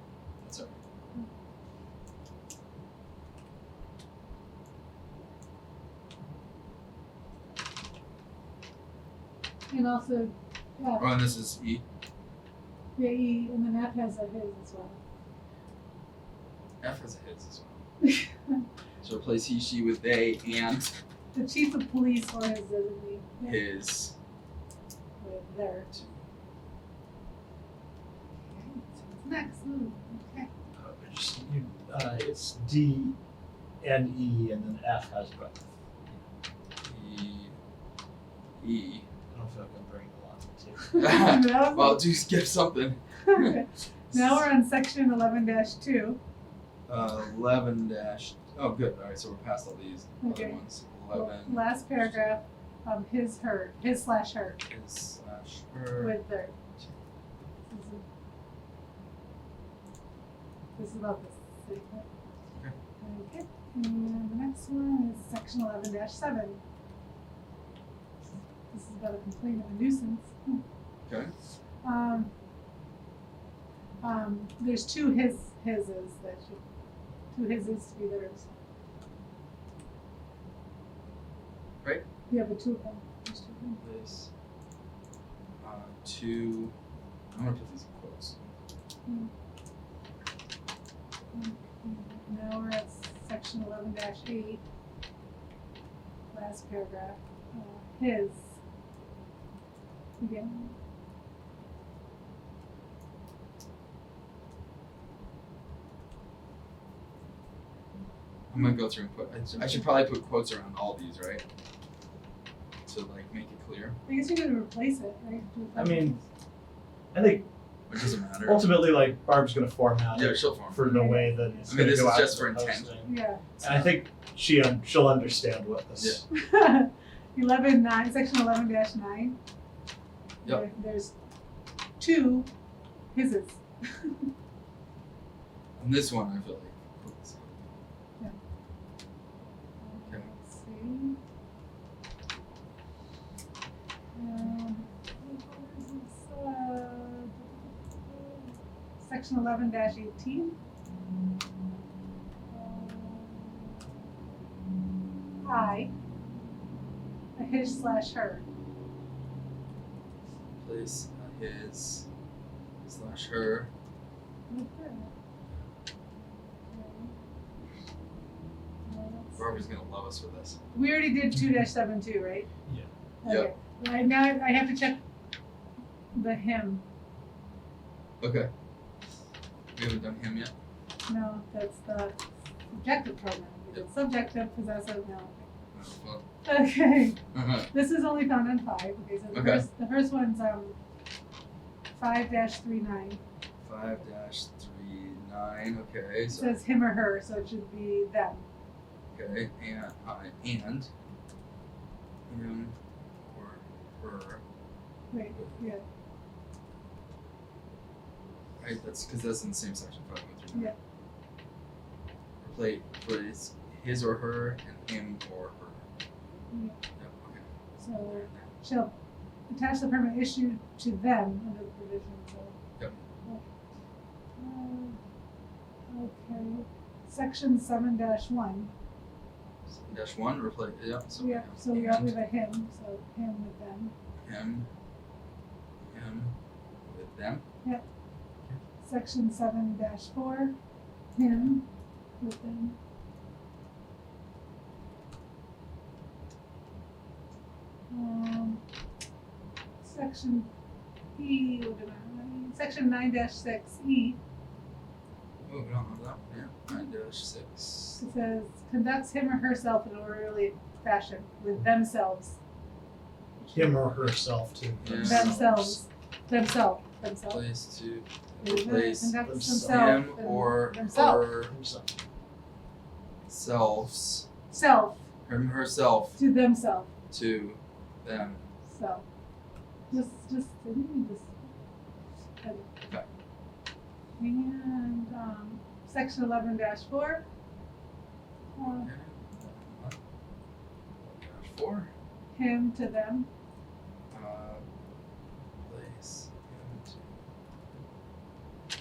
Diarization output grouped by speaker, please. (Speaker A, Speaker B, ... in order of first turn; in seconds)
Speaker A: 0.4-0.8, 11.0-11.8, 16.8-17.8, 19.0-20.9, 23.4-24.1, 25.9-26.2, 36.8-37.5, 38.6-39.1, 40.9-43.5, 46.9-52.4, 54.7-56.2, 71.1-71.3, 83.8-84.3, 85.6-86.7, 87.3-88.4, 108.5-111.4, 112.9-114.0, 117.9-118.8, 120.1-120.8, 121.7-123.0, 123.5-124.0, 135.8-137.7, 160.6-162.1, 162.8-163.7, 169.3-170.6, 173.2-173.5, 178.2-178.5, 179.8-180.5, 185.7-186.2, 187.3-187.7, 189.3-189.7, 193.6-196.6, 199.1-200.9, 202.3-204.4, 208.6-210.7, 212.4-215.8, 217.0-217.4, 218.1-218.5, 229.7-232.1, 234.2-234.7, 235.9-236.3, 236.9-237.4, 255.4-258.0, 264.8-265.5, 267.3-271.5, 273.2-274.3, 275.2-276.2, 277.1-278.4, 288.7-290.0, 291.0-291.9, 294.1-294.6, 295.7-297.1
Speaker B: 9.7-11.1, 12.9-15.0, 18.0-18.6, 21.3-23.6, 25.2-25.9, 28.4-30.5, 40.9-42.0, 43.2-46.2, 50.2-50.6, 51.1-54.6, 56.0-56.5, 57.7-58.0, 60.8-62.1, 63.0-66.6, 68.7-70.6, 71.8-72.3, 74.0-76.6, 77.3-78.5, 82.3-83.8, 91.3-94.6, 96.3-98.5, 100.2-100.7, 109.6-109.8, 114.0-116.2, 120.8-121.6, 123.0-123.4, 126.3-129.3, 130.4-131.1, 132.0-132.5, 133.1-134.3, 139.8-141.2, 144.2-150.5, 152.5-153.8, 155.4-155.9, 157.3-158.4, 164.5-165.1, 166.7-167.1, 168.8-169.6, 170.7-172.5, 173.2-175.0, 176.1-176.8, 181.1-182.2, 182.7-185.5, 186.4-190.8, 191.9-193.2, 196.3-198.4, 205.1-205.8, 216.5-216.8, 217.8-218.9, 219.5-222.6, 224.4-225.0, 225.9-228.7, 231.2-233.9, 238.8-240.5, 241.2-241.6, 242.2-242.8, 247.9-248.6, 249.8-250.5, 251.2-254.2, 258.0-262.4, 263.4-263.8, 265.0-267.4, 268.4-271.3, 274.5-275.0, 276.2-276.9, 278.7-279.0, 279.9-281.5, 282.4-282.7, 284.2-287.2, 288.6-288.9, 292.3-293.3
Speaker C: 30.8-33.1, 33.8-35.6, 39.3-41.0, 115.8-116.2, 117.1-117.5, 118.4-126.2, 263.5-265.8, 269.2-270.0, 271.5-271.9